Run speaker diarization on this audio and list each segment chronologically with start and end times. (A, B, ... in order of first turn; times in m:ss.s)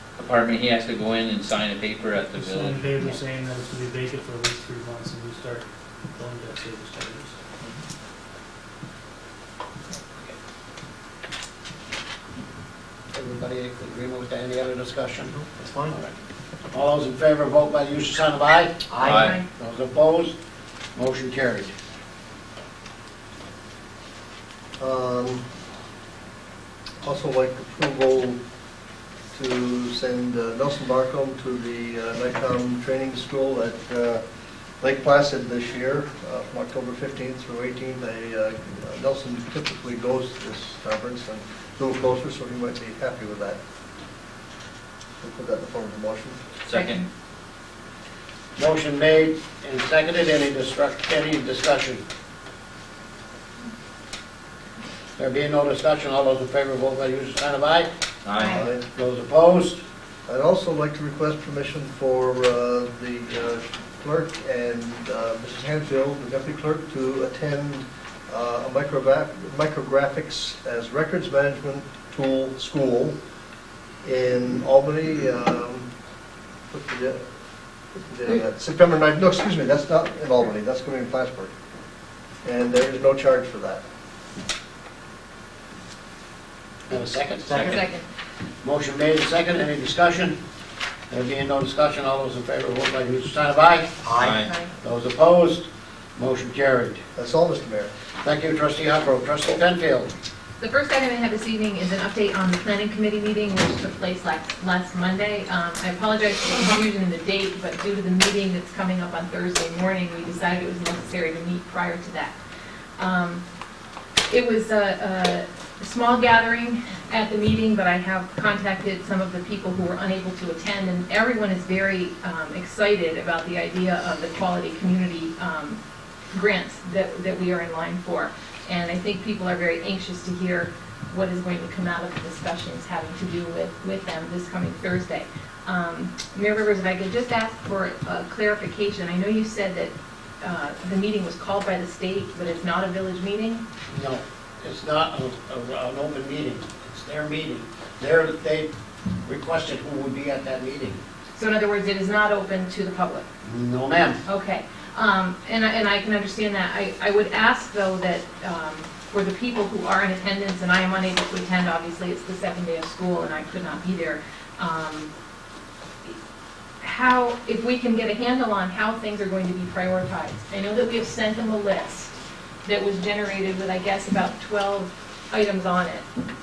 0:00.2-0:03.2 A
0:02.4-0:07.6 B
0:13.1-0:16.1 C
0:15.5-0:16.0 B
0:16.7-0:20.3 C
0:19.0-0:19.4 A
0:19.0-0:19.3 B
0:19.2-0:19.4 D
0:21.0-0:21.7 C
0:24.8-0:25.4 E
0:27.0-0:28.4 E
0:29.3-0:34.2 E
0:34.8-0:43.6 E
0:45.2-0:46.4 E
0:46.6-0:47.1 A
0:48.6-0:52.0 C
0:55.2-0:57.9 C
0:58.2-0:58.6 A
0:58.4-0:58.8 E
0:59.0-0:59.8 C
1:00.3-1:13.2 E
1:14.0-1:15.9 E
1:16.7-1:17.2 E
1:18.0-1:21.5 E
1:22.4-1:23.8 E
1:26.9-1:27.8 C
1:27.5-1:27.8 A
1:27.6-1:28.1 D
1:28.6-1:30.4 C
1:31.1-1:34.2 C
1:34.2-1:34.5 A
1:34.4-1:34.7 D
1:34.8-1:37.0 C
1:37.2-1:37.9 E
1:38.2-1:40.1 C
1:40.6-1:52.4 D
1:53.0-1:53.4 D
1:54.3-2:05.8 D
2:06.3-2:23.6 D
2:23.9-2:28.7 C
2:29.2-2:31.0 C
2:31.3-2:33.3 D
2:33.4-2:34.2 C
2:34.2-2:45.1 D
2:46.8-2:56.1 D